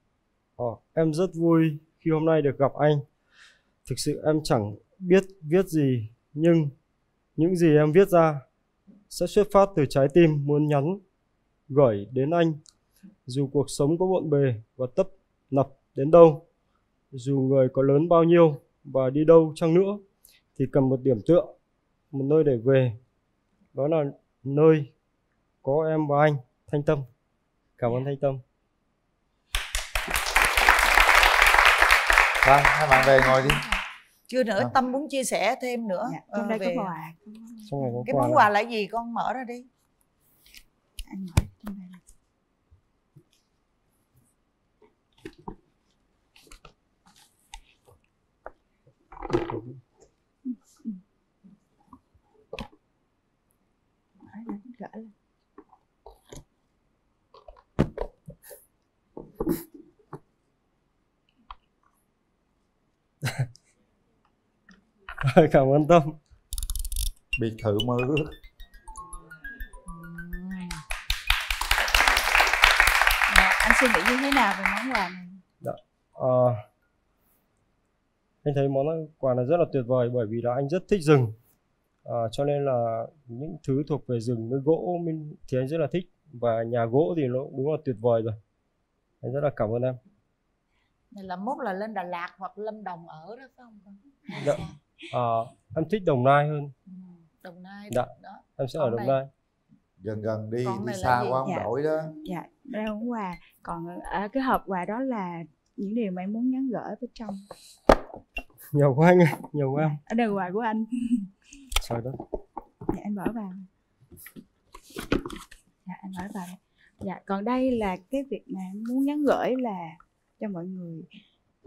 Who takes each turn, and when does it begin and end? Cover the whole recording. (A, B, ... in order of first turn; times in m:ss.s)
0:00.6-0:03.0 A
0:03.8-0:06.7 A
0:07.4-0:08.4 A
0:09.1-0:11.0 A
0:11.7-0:12.6 A
0:13.3-0:16.4 A
0:17.1-0:20.0 A
0:20.6-0:21.5 A
0:22.1-0:23.0 A
0:23.7-0:24.9 A
0:25.6-0:27.1 A
0:27.8-0:28.4 A
0:32.4-0:33.6 B
0:32.9-0:33.8 C
0:34.3-0:36.9 D
0:36.0-0:38.2 C
0:37.7-0:38.5 A
0:38.0-0:39.6 D
0:41.1-0:42.0 C
0:50.4-0:51.0 C
0:54.2-0:55.1 C
1:05.2-1:06.1 A
1:07.4-1:08.3 B
1:09.9-1:10.8 D
1:13.3-1:15.4 C
1:15.6-1:16.6 A
1:18.4-1:21.3 A
1:22.0-1:28.4 A
1:29.2-1:30.0 A
1:31.1-1:34.6 D
1:34.4-1:36.7 A
1:36.9-1:39.2 D
1:37.9-1:39.3 A
1:40.0-1:42.1 B
1:40.6-1:41.5 D
1:42.2-1:47.4 C
1:48.7-1:50.0 A
1:49.8-1:51.3 C
1:51.8-1:52.2 A
1:52.9-1:53.6 C
1:55.8-2:01.1 C